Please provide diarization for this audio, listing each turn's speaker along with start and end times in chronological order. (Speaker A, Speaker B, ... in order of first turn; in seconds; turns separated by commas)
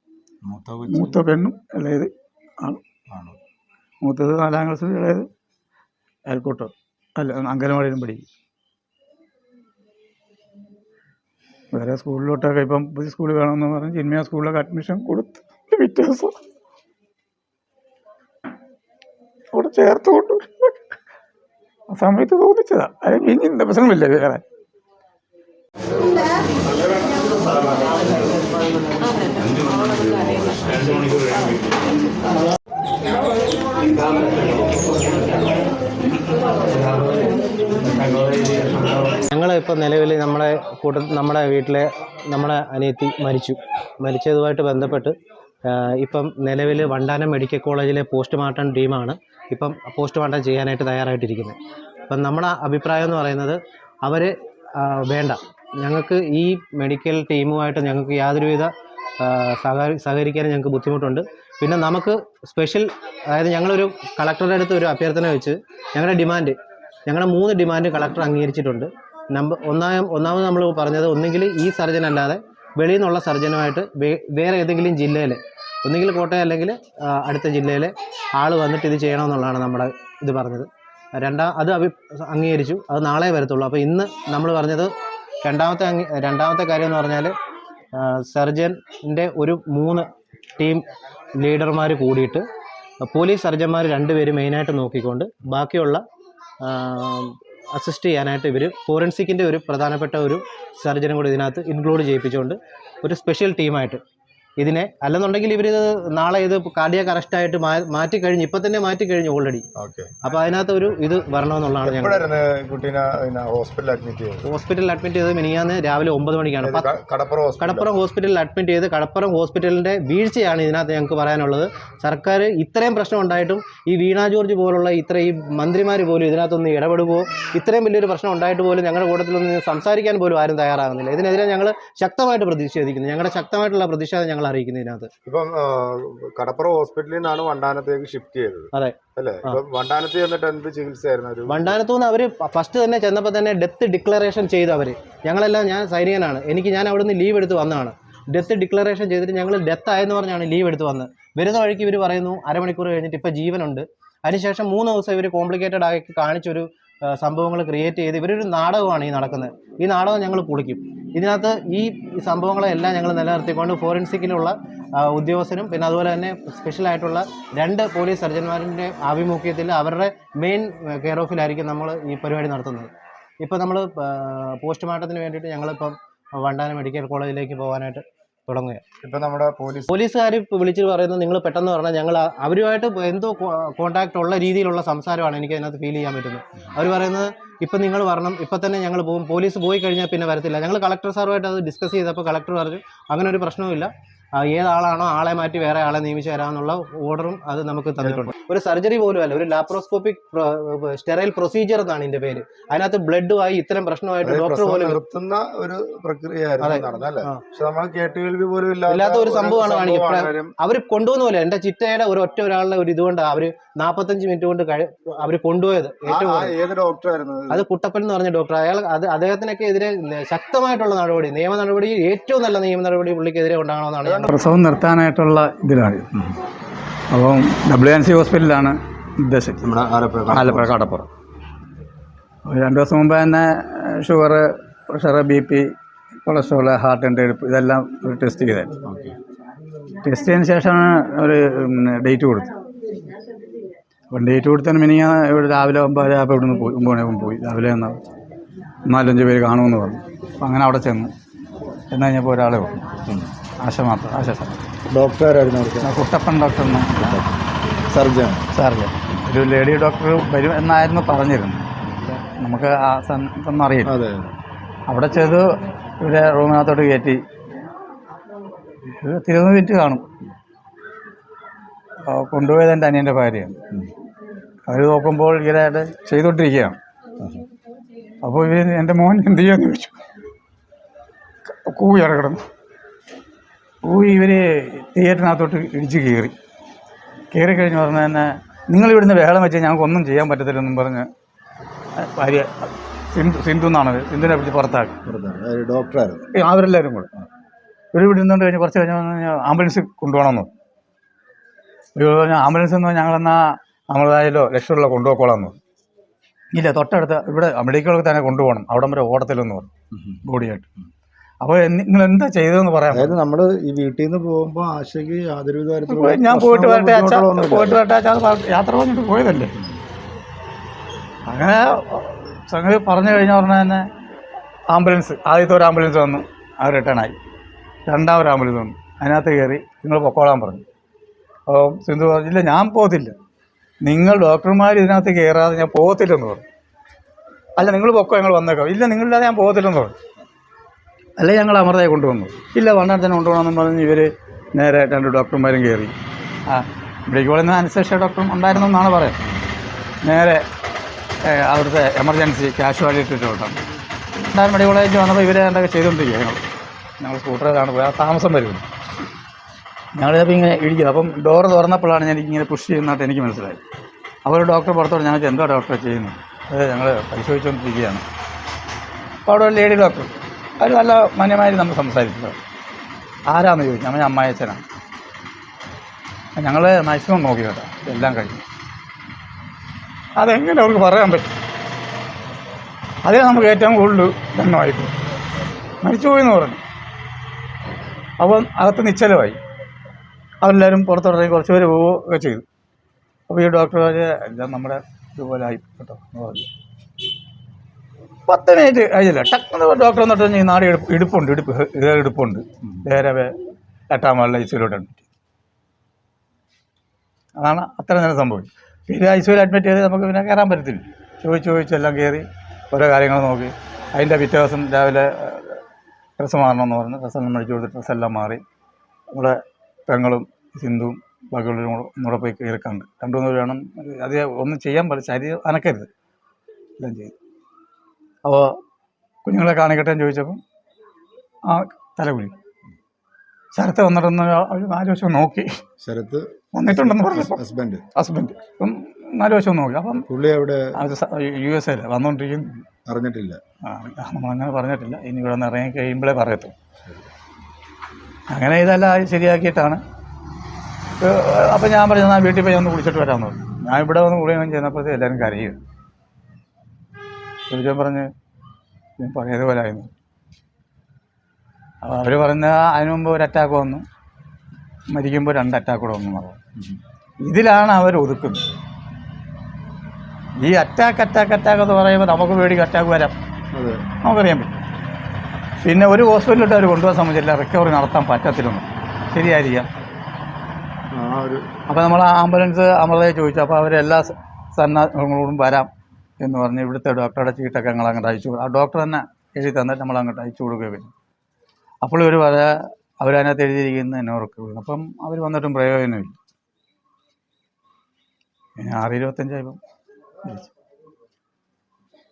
Speaker A: 0.4-1.2, Speaker B: 0.9-2.8, Speaker A: 3.1-3.4, Speaker B: 4.0-5.3, Speaker B: 6.2-8.2, Speaker B: 11.7-16.4, Speaker B: 19.5-20.7, Speaker B: 21.9-24.4, Speaker B: 30.7-31.4, Speaker B: 33.9-35.1, Speaker B: 36.6-39.2, Speaker C: 39.3-51.6, Speaker C: 52.1-84.9, Speaker C: 85.4-87.3, Speaker C: 87.9-90.0, Speaker C: 90.6-90.8, Speaker C: 91.4-92.4, Speaker C: 93.0-96.0, Speaker C: 96.6-104.0, Speaker C: 104.6-109.6, Speaker A: 109.7-110.2, Speaker C: 110.2-112.3, Speaker A: 111.8-114.5, Speaker C: 114.4-116.9, Speaker A: 116.6-117.9, Speaker C: 117.6-135.1, Speaker A: 135.2-141.8, Speaker C: 138.7-139.6, Speaker C: 141.5-172.9, Speaker C: 173.4-178.8, Speaker A: 179.0-179.9, Speaker C: 179.9-205.0, Speaker A: 198.0-198.3, Speaker A: 204.2-210.5, Speaker C: 206.6-207.4, Speaker C: 208.9-216.6, Speaker A: 216.1-217.7, Speaker C: 217.5-224.3, Speaker A: 224.0-224.3, Speaker B: 224.3-226.1, Speaker B: 227.1-229.7, Speaker A: 229.6-230.8, Speaker B: 230.3-231.1, Speaker B: 232.4-235.7, Speaker B: 236.2-238.7, Speaker A: 238.8-239.2, Speaker B: 240.0-242.5, Speaker B: 244.1-248.0, Speaker B: 248.9-251.1, Speaker B: 251.9-252.7, Speaker B: 253.6-254.6, Speaker A: 254.9-256.1, Speaker B: 255.8-257.2, Speaker A: 256.9-258.5, Speaker B: 258.5-261.7, Speaker B: 262.4-263.9, Speaker A: 263.9-264.4, Speaker B: 264.9-265.4, Speaker B: 266.0-267.2, Speaker B: 268.9-270.0, Speaker B: 272.1-273.6, Speaker B: 274.7-276.8, Speaker B: 278.2-280.0, Speaker B: 281.5-282.4, Speaker B: 283.8-286.3, Speaker B: 287.3-291.1, Speaker B: 292.0-294.9, Speaker A: 295.0-296.3, Speaker B: 296.3-297.1, Speaker B: 297.9-300.5, Speaker B: 301.9-305.6, Speaker B: 306.5-309.7, Speaker A: 309.9-310.2, Speaker B: 310.2-310.7, Speaker B: 311.4-313.1, Speaker A: 312.9-317.8, Speaker B: 315.9-319.6, Speaker B: 321.3-323.9, Speaker B: 324.7-327.1, Speaker B: 327.9-330.6, Speaker B: 331.5-333.1, Speaker B: 333.8-336.4, Speaker B: 337.6-339.9, Speaker B: 341.2-345.9, Speaker B: 346.5-349.2, Speaker B: 350.0-350.4, Speaker B: 351.2-353.6, Speaker B: 354.1-356.4, Speaker B: 357.0-358.6, Speaker B: 359.9-363.6, Speaker B: 364.2-368.0, Speaker B: 369.2-372.4, Speaker B: 373.3-374.6, Speaker B: 376.4-378.4, Speaker B: 380.2-381.4, Speaker B: 383.0-384.9, Speaker B: 385.8-386.6, Speaker B: 388.2-389.4, Speaker B: 390.4-392.4, Speaker B: 393.3-396.5, Speaker B: 398.3-403.3, Speaker B: 403.9-405.1, Speaker B: 407.4-415.6, Speaker B: 416.2-418.4, Speaker B: 419.1-425.9, Speaker B: 426.8-427.1, Speaker B: 428.2-428.6, Speaker B: 429.2-430.4, Speaker B: 431.4-432.3, Speaker B: 433.5-435.5, Speaker A: 435.8-437.9, Speaker B: 436.5-437.4, Speaker B: 437.9-440.1, Speaker A: 439.9-440.7, Speaker B: 440.8-442.6, Speaker A: 442.9-443.4, Speaker B: 443.6-446.5, Speaker A: 446.8-447.1, Speaker B: 448.3-449.8, Speaker B: 451.0-455.6, Speaker B: 457.5-458.1, Speaker B: 459.0-459.9, Speaker B: 461.8-463.8, Speaker B: 464.9-466.4, Speaker A: 466.6-466.8, Speaker B: 467.2-468.5, Speaker B: 470.4-473.1, Speaker A: 473.5-473.8, Speaker B: 474.0-474.6, Speaker B: 475.6-479.7, Speaker A: 480.9-481.5, Speaker B: 481.7-490.9, Speaker B: 491.8-496.2, Speaker B: 498.6-499.6, Speaker B: 500.2-500.5